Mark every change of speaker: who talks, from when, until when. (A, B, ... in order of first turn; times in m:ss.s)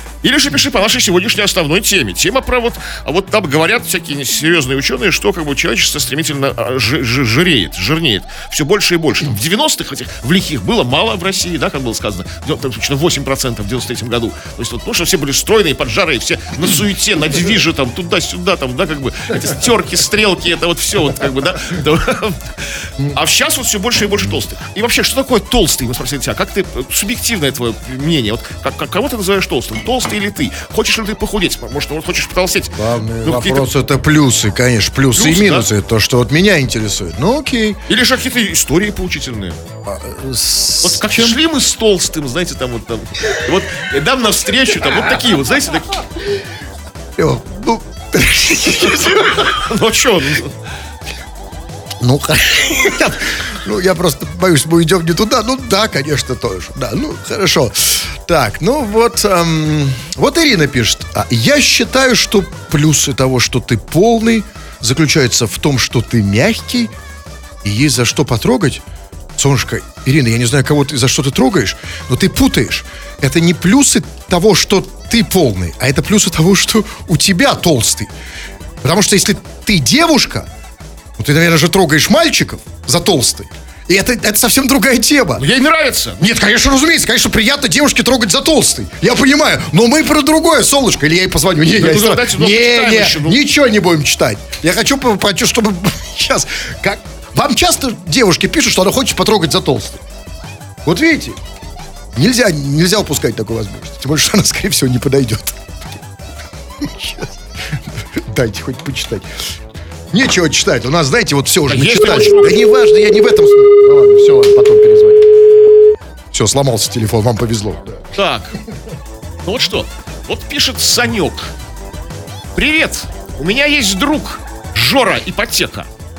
0:00.2-0:33.7 A
0:32.8-0:37.8 B
0:35.1-0:35.7 A
0:37.9-0:39.6 A
0:39.8-0:41.4 B
0:40.8-0:46.0 A
0:47.2-0:49.5 B
0:49.1-0:50.5 A
0:52.0-1:06.9 B
1:07.6-1:08.8 B
1:09.4-1:18.1 B
1:18.8-1:20.5 B
1:21.2-1:25.4 B
1:25.4-1:26.2 A
1:26.2-1:40.0 B
1:31.8-1:33.4 A
1:40.8-1:41.4 B
1:42.2-1:46.0 B
1:46.8-1:47.4 B
1:48.1-1:49.3 B
1:50.1-1:55.3 B
1:51.7-1:52.6 A
1:56.3-1:58.0 B
1:58.2-1:58.6 A
1:59.4-2:01.5 A
2:02.5-2:05.9 A